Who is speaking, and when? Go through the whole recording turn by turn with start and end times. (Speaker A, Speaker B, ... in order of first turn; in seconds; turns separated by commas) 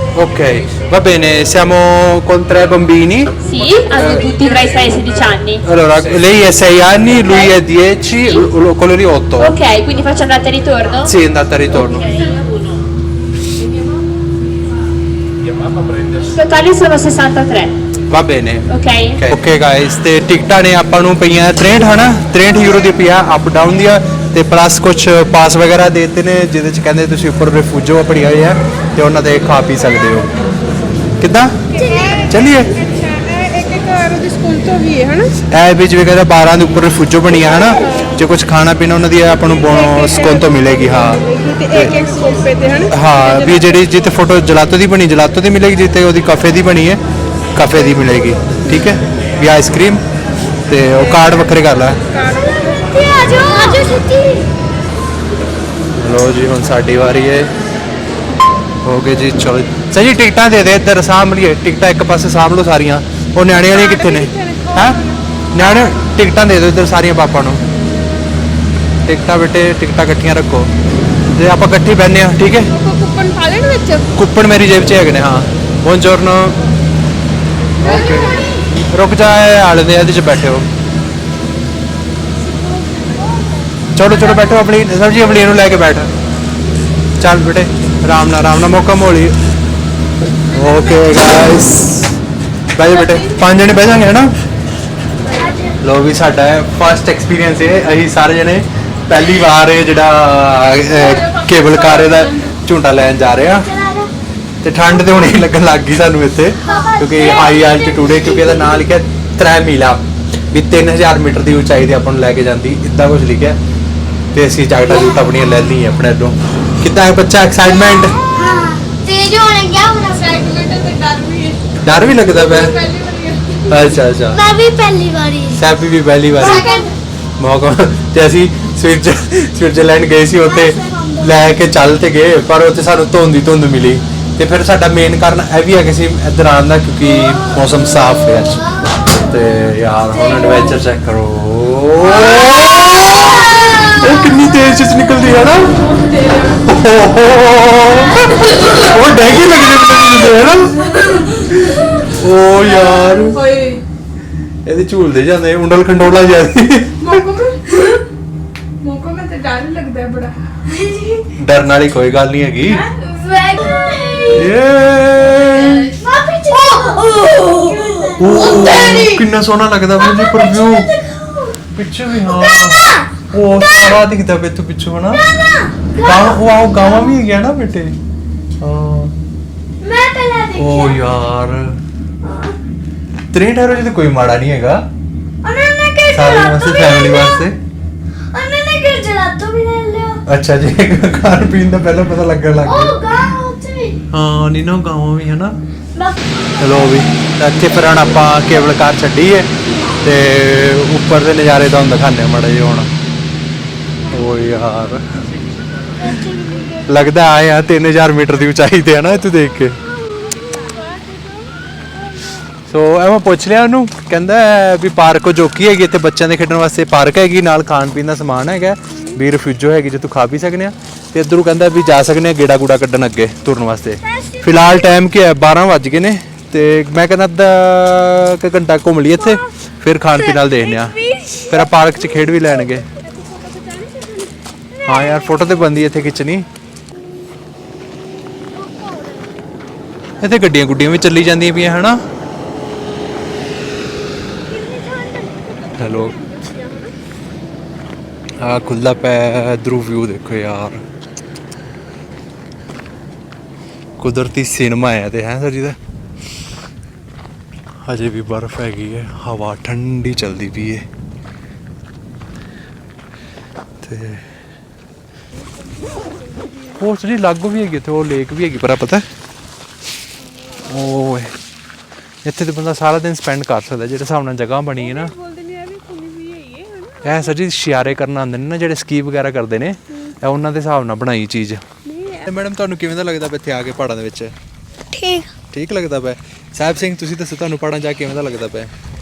Speaker A: 0.2-3.4, Speaker B: 3.4-5.6, Speaker A: 4.0-4.3, Speaker A: 5.6-9.6, Speaker B: 7.2-7.6, Speaker B: 8.2-8.5, Speaker B: 9.4-11.1, Speaker A: 11.1-12.1, Speaker B: 11.9-12.3, Speaker B: 16.2-17.7, Speaker A: 18.1-30.3, Speaker B: 18.7-19.2, Speaker A: 31.2-31.5, Speaker C: 31.8-32.4, Speaker D: 31.8-35.3, Speaker A: 32.3-32.8, Speaker A: 35.5-42.0, Speaker D: 39.6-43.8, Speaker A: 42.9-47.0, Speaker A: 47.6-50.0, Speaker D: 48.6-49.0, Speaker A: 50.7-52.0, Speaker D: 51.0-51.4, Speaker D: 52.1-53.8, Speaker C: 52.2-54.5, Speaker A: 56.0-57.5, Speaker A: 58.9-65.0, Speaker D: 63.7-65.2, Speaker A: 65.5-67.6, Speaker A: 69.1-70.7, Speaker A: 71.3-72.7, Speaker D: 72.7-74.1, Speaker A: 74.2-76.6, Speaker C: 77.8-78.5, Speaker A: 77.8-80.7, Speaker C: 82.4-84.6, Speaker A: 84.0-86.1, Speaker A: 87.2-89.3, Speaker D: 90.5-91.2, Speaker A: 90.5-92.2, Speaker A: 92.8-94.3, Speaker D: 92.9-93.4, Speaker C: 95.2-95.8, Speaker A: 95.8-103.7, Speaker D: 100.8-102.5, Speaker C: 103.6-104.1, Speaker A: 104.6-113.6, Speaker C: 106.6-108.8, Speaker A: 114.3-118.2, Speaker C: 118.1-120.5, Speaker D: 119.9-123.8, Speaker A: 121.8-122.8, Speaker A: 123.7-124.4, Speaker C: 124.3-125.6, Speaker A: 125.5-126.8, Speaker C: 126.4-126.9, Speaker D: 126.6-126.8, Speaker A: 127.4-145.8, Speaker C: 130.4-131.4, Speaker C: 138.8-139.1, Speaker C: 140.3-140.7, Speaker C: 142.3-142.7, Speaker D: 146.0-146.6, Speaker A: 146.6-151.1, Speaker C: 151.6-152.0, Speaker A: 152.0-153.5, Speaker D: 152.7-153.8, Speaker A: 154.7-157.2, Speaker D: 157.0-158.0, Speaker D: 158.8-160.3, Speaker C: 160.7-161.2, Speaker A: 161.4-162.8, Speaker C: 163.1-164.5, Speaker A: 164.3-165.9, Speaker C: 166.0-169.1, Speaker A: 168.2-170.9, Speaker D: 168.8-169.1, Speaker C: 170.0-171.6, Speaker A: 171.8-175.2, Speaker C: 172.2-173.1, Speaker C: 175.1-177.2, Speaker A: 176.0-177.9, Speaker A: 178.6-179.1, Speaker C: 179.8-181.0, Speaker A: 180.6-181.6, Speaker C: 182.2-182.5, Speaker A: 183.3-184.8, Speaker C: 185.4-187.4, Speaker A: 186.1-187.5, Speaker C: 188.3-190.2, Speaker A: 190.3-193.0, Speaker C: 192.6-194.0, Speaker A: 194.1-195.5, Speaker C: 196.0-197.3, Speaker A: 196.6-199.5, Speaker C: 199.7-200.0, Speaker A: 200.0-202.9, Speaker C: 204.0-204.3, Speaker A: 204.1-205.0, Speaker C: 206.0-207.1, Speaker A: 206.9-209.8, Speaker C: 209.9-211.0, Speaker D: 210.7-211.5, Speaker A: 212.7-231.0, Speaker C: 224.0-224.6, Speaker C: 230.2-231.7, Speaker A: 231.5-232.9, Speaker D: 233.0-234.3, Speaker C: 234.7-235.6, Speaker A: 234.8-236.5, Speaker C: 238.5-239.4, Speaker A: 240.2-242.0, Speaker C: 244.5-245.4, Speaker D: 244.7-246.9, Speaker A: 245.8-246.2, Speaker A: 248.4-250.8, Speaker A: 254.0-255.8, Speaker A: 257.9-260.8, Speaker A: 263.8-264.2, Speaker D: 265.8-266.6, Speaker A: 266.7-269.0, Speaker A: 270.6-271.3, Speaker A: 272.2-275.1, Speaker D: 274.8-277.3, Speaker A: 277.0-281.6, Speaker D: 281.9-282.3, Speaker A: 282.2-284.3, Speaker C: 284.9-285.3, Speaker A: 285.5-288.7